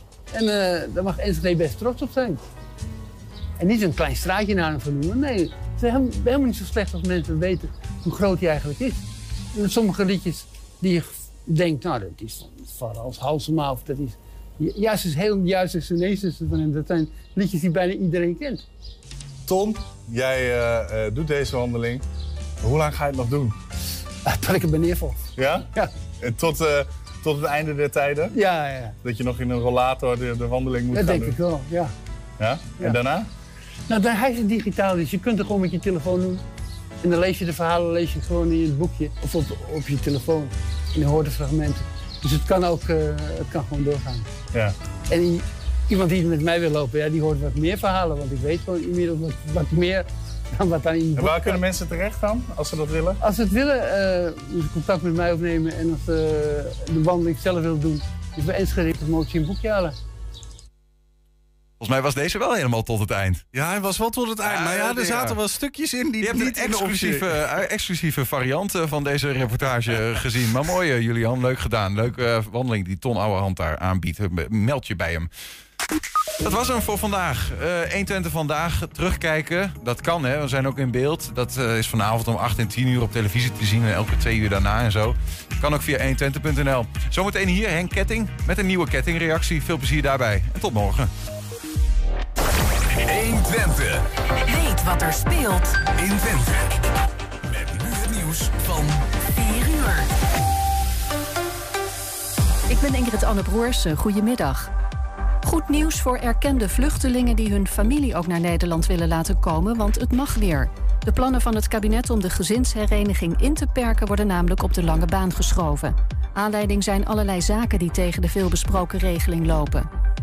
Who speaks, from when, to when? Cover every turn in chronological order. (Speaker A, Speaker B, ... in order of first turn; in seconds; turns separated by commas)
Speaker A: 0.3-2.4, Speaker A: 3.6-9.0, Speaker A: 9.5-18.6, Speaker B: 19.5-22.0, Speaker B: 22.6-23.6, Speaker A: 24.3-25.2, Speaker B: 25.4-25.7, Speaker B: 26.2-28.4, Speaker A: 28.3-28.9, Speaker B: 29.0-31.4, Speaker A: 30.9-31.9, Speaker B: 32.4-33.3, Speaker A: 33.9-36.4, Speaker A: 37.0-44.3, Speaker A: 45.1-51.6, Speaker B: 51.2-53.2, Speaker A: 53.2-60.0, Speaker C: 61.8-63.5, Speaker B: 63.5-67.3, Speaker C: 64.4-65.4, Speaker C: 66.2-75.3, Speaker C: 76.4-91.1, Speaker D: 92.9-96.8, Speaker D: 97.5-100.1, Speaker E: 102.7-104.7, Speaker E: 105.5-119.9